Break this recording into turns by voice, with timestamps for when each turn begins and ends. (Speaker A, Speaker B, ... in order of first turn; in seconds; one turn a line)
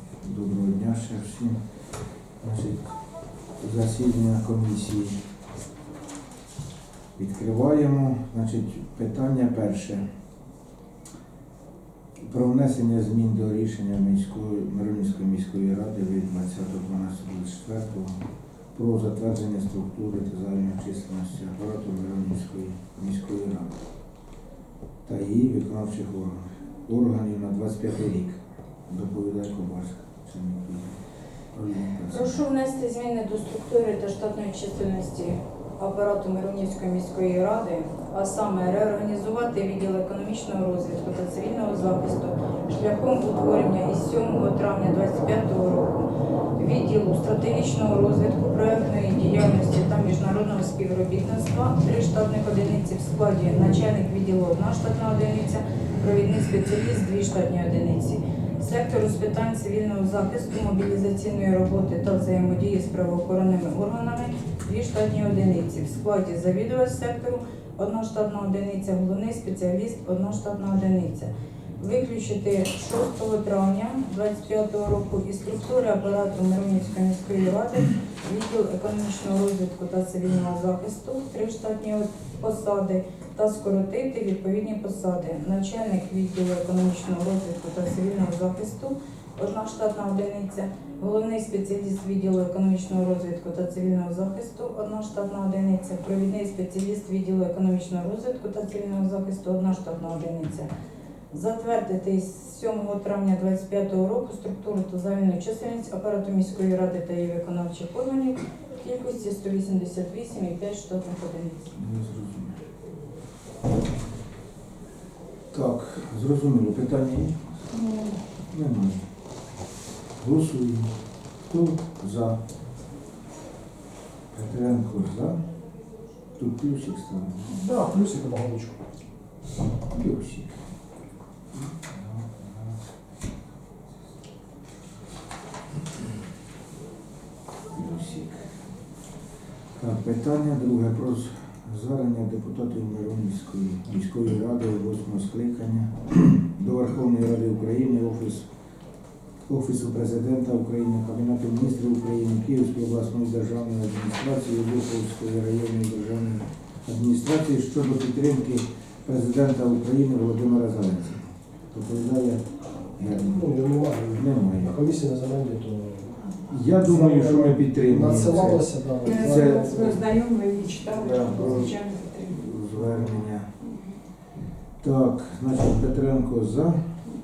Speaker A: 0.2-1.6
Speaker A: 2.4-2.9
Speaker A: 3.6-5.2
Speaker A: 7.2-10.0
Speaker A: 12.2-18.1
Speaker A: 18.7-23.8
Speaker A: 25.0-31.0
Speaker A: 31.5-32.4
Speaker B: 32.1-100.7
Speaker B: 101.3-111.7
Speaker A: 111.7-112.6
Speaker A: 115.5-117.6
Speaker A: 118.5-119.0
Speaker A: 120.2-122.4
Speaker A: 124.3-125.4
Speaker A: 126.4-127.6
Speaker C: 127.5-128.8
Speaker A: 129.8-130.6
Speaker A: 131.5-132.9
Speaker A: 137.7-138.5
Speaker A: 139.7-148.5
Speaker A: 149.4-163.4
Speaker C: 163.1-170.0
Speaker A: 164.1-164.8
Speaker A: 166.4-169.9
Speaker D: 169.1-172.3
Speaker A: 170.8-173.5
Speaker A: 174.8-176.9